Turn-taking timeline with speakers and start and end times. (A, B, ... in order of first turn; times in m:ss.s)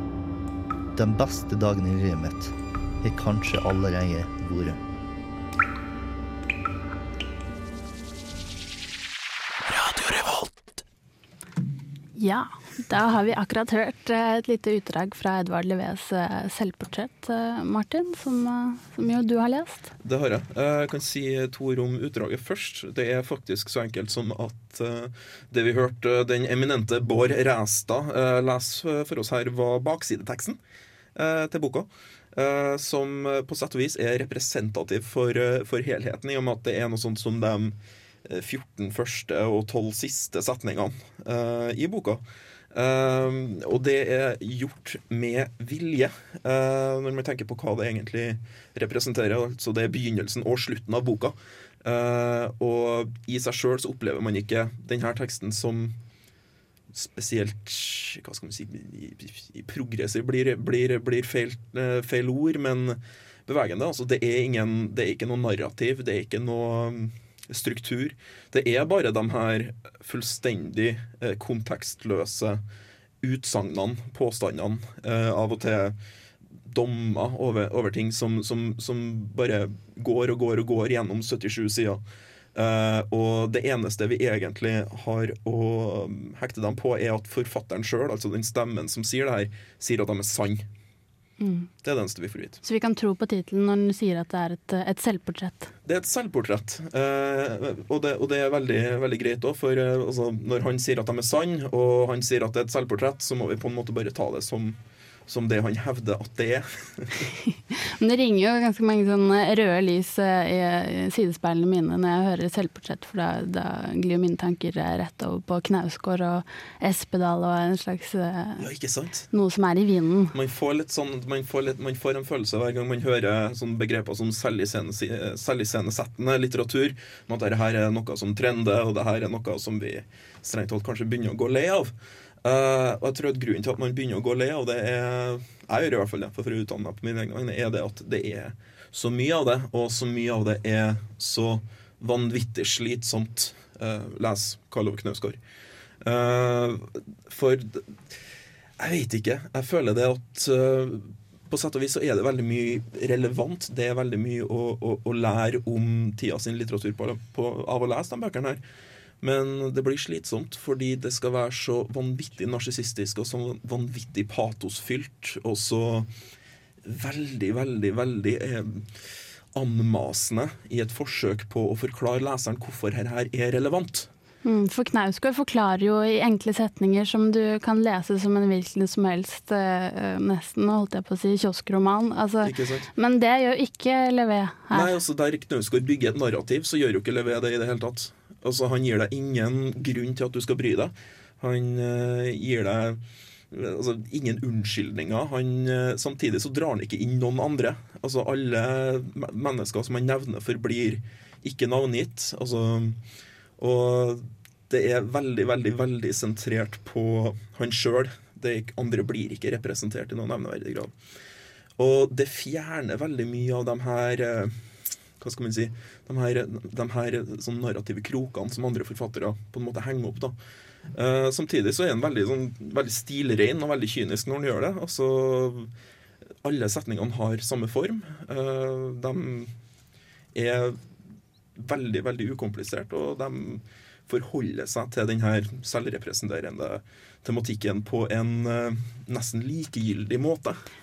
0:01.0-0:04.8 A
0:12.2-0:19.9 B
0:20.0-0:30.6 C
0:31.2-0:42.2 C
0:42.7-0:56.0 C
0:56.9-1:12.6 C
1:13.2-1:16.0 C
1:16.7-1:22.0 C
1:22.6-1:30.7 C
1:31.4-1:31.7 B
1:31.8-1:32.6 C
1:32.6-1:35.7 B
1:35.9-1:47.2 C
1:48.0-1:58.7 B
1:58.6-1:59.3 C
1:59.3-2:00.4 B
2:00.3-2:11.9 C
2:12.4-2:25.4 C
2:26.0-2:27.9 C
2:28.8-2:38.6 C
2:39.2-2:46.1 C
2:46.8-2:48.9 C
2:49.5-2:54.1 C
2:54.4-3:04.9 B
3:02.4-3:02.9 C
3:04.7-3:23.0 C
3:23.6-3:30.9 C
3:31.8-3:34.6 C
3:35.2-3:40.4 C
3:40.9-3:45.7 C
3:46.4-3:49.5 C
3:50.3-3:50.8 C
3:51.6-4:00.6 C